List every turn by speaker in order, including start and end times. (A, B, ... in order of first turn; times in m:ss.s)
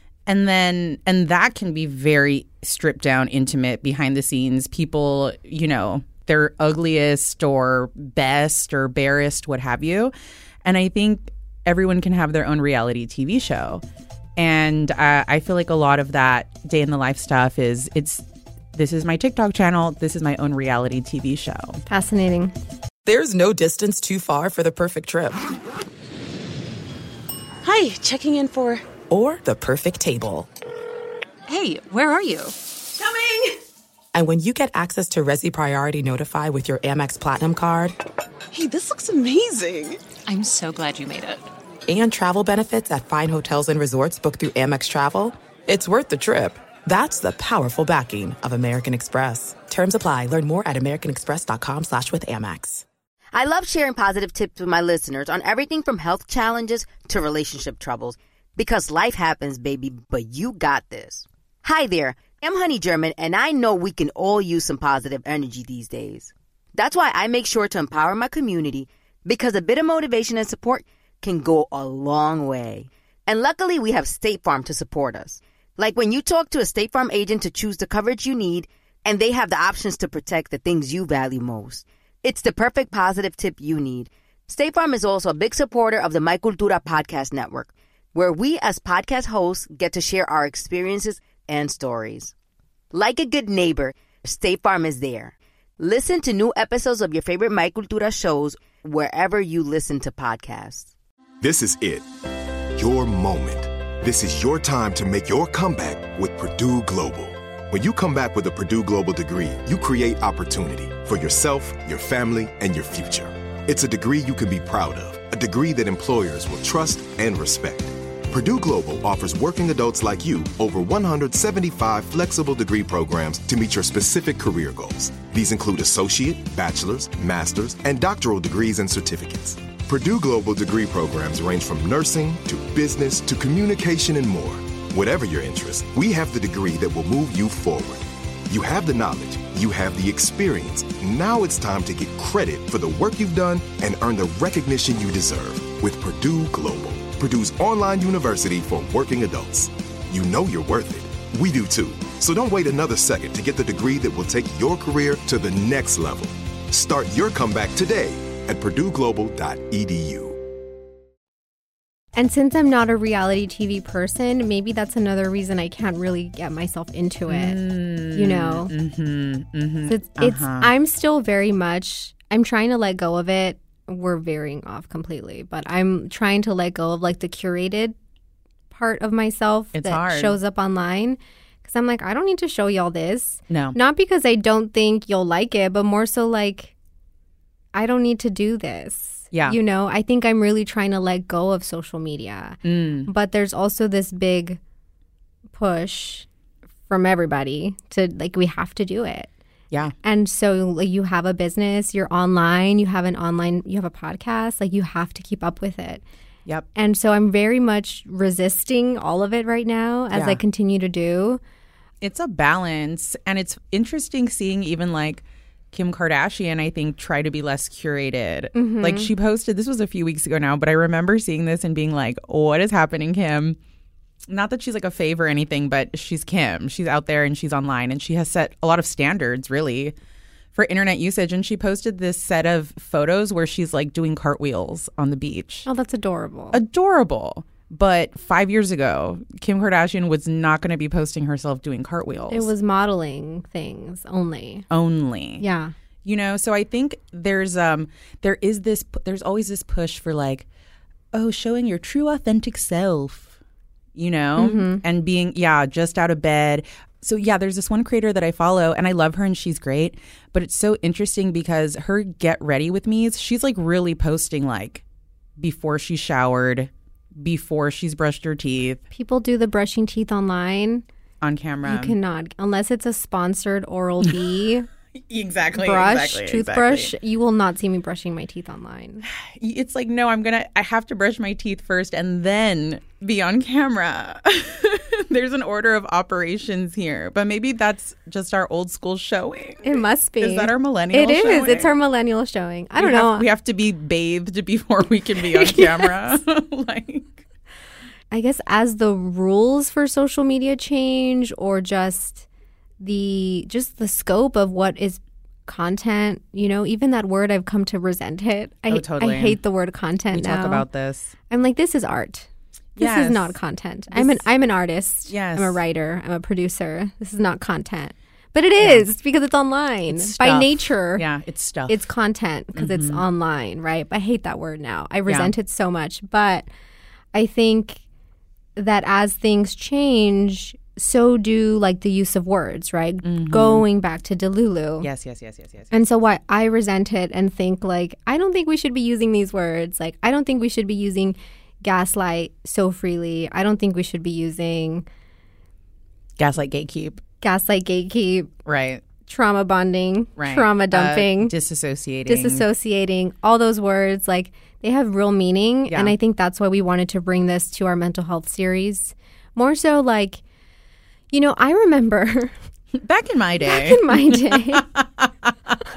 0:00.2-0:10.1 A
0:10.6-0:13.8 A
0:14.4-0:18.2 A
0:18.7-0:21.8 A
0:21.9-0:22.5 B
0:23.0-0:25.4 C
0:27.6-0:28.8 D
0:29.1-0:30.5 C
0:31.5-0:32.5 E
0:34.1-0:38.0 C
0:38.5-0:40.0 D
0:40.2-0:41.5 E
0:41.9-0:52.8 C
0:53.3-1:32.3 F
1:32.9-1:40.9 F
1:41.4-1:42.0 G
1:42.8-2:40.4 G
2:42.2-2:47.6 B
2:47.3-2:50.7 A
2:48.1-2:48.7 B
2:49.9-2:57.9 B
2:58.7-3:06.7 B
2:59.7-3:00.4 A
3:03.5-3:03.8 A
3:07.7-3:14.6 B
3:09.3-3:09.6 A
3:12.6-3:13.1 A
3:15.6-3:16.3 B
3:16.9-3:19.3 B
3:20.0-3:26.0 B
3:26.7-3:31.4 B
3:30.1-3:30.4 A
3:32.0-3:43.6 A
3:38.5-3:39.1 B
3:44.3-3:49.9 A
3:50.5-3:55.6 A
3:55.6-3:56.6 B
3:56.5-4:02.5 A
4:02.3-4:04.6 B
4:04.7-4:05.4 A
4:05.4-4:05.7 B
4:06.0-4:10.4 A
4:11.1-4:13.4 A
4:14.0-4:24.8 A
4:14.4-4:14.8 B
4:25.4-4:28.8 A
4:28.9-4:30.8 B
4:31.2-4:31.9 A
4:31.6-4:34.7 B
4:35.1-4:36.9 A
4:35.6-4:39.0 B
4:39.1-4:51.7 A
4:49.6-4:53.3 B
4:52.8-4:57.2 A
4:55.3-4:56.1 B
4:58.1-5:02.2 B
5:02.8-5:10.6 B
5:08.7-5:09.4 A
5:10.1-5:11.1 A
5:11.3-5:21.0 B
5:12.8-5:13.4 A
5:13.9-5:14.2 A
5:15.1-5:15.6 A
5:18.6-5:18.8 A
5:19.9-5:21.8 A
5:21.7-5:26.5 B
5:22.5-5:23.0 A
5:25.1-5:25.3 A
5:27.1-5:27.8 B
5:28.6-5:34.9 B
5:33.0-5:33.6 A
5:34.8-5:35.7 A
5:35.7-5:44.8 B
5:46.2-5:47.0 A
5:47.2-5:48.3 B
5:48.4-5:48.8 A
5:49.1-5:51.3 B
5:50.2-5:52.4 A
5:52.0-6:00.2 B
5:55.7-5:55.9 A
6:01.1-6:02.3 B
6:02.8-6:05.6 A
6:03.4-6:04.7 B